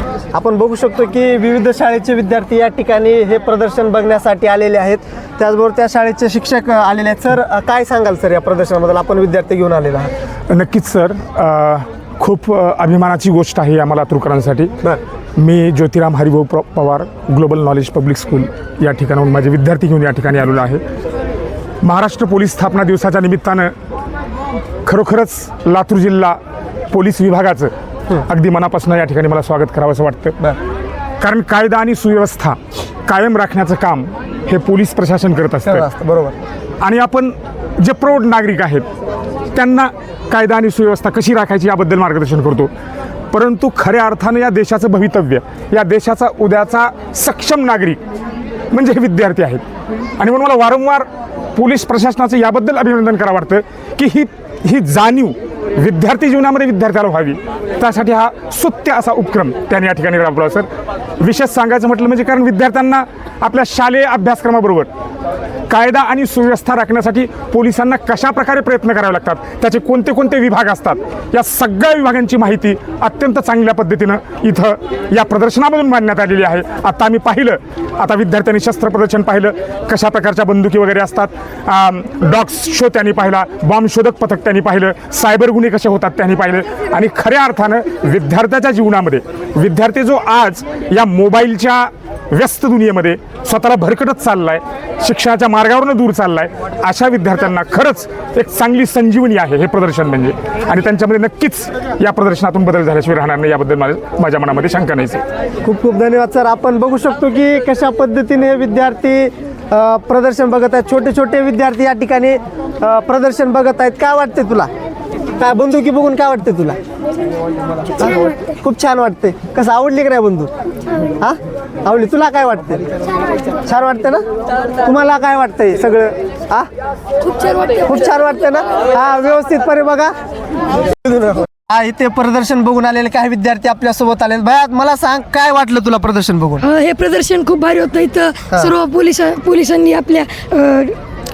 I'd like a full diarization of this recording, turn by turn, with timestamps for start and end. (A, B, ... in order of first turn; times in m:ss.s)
0:00.3-0:10.1 A
0:10.5-0:14.7 B
0:15.4-0:20.8 B
0:21.8-0:23.7 B
0:24.9-0:26.4 B
0:26.9-0:27.7 B
0:28.2-0:30.4 B
0:31.2-0:35.9 B
0:35.6-0:36.3 A
0:36.8-0:38.8 B
0:39.6-0:42.7 B
0:43.3-0:48.0 B
0:48.7-0:49.6 B
0:50.2-1:00.7 B
1:01.2-1:04.9 B
1:05.7-1:45.2 B
1:45.6-1:54.7 A
1:55.4-1:56.8 A
1:58.0-2:00.5 A
2:01.2-2:02.8 A
2:03.7-2:04.2 A
2:04.8-2:06.7 A
2:07.8-2:10.1 A
2:11.0-2:16.7 A
2:16.6-2:21.0 C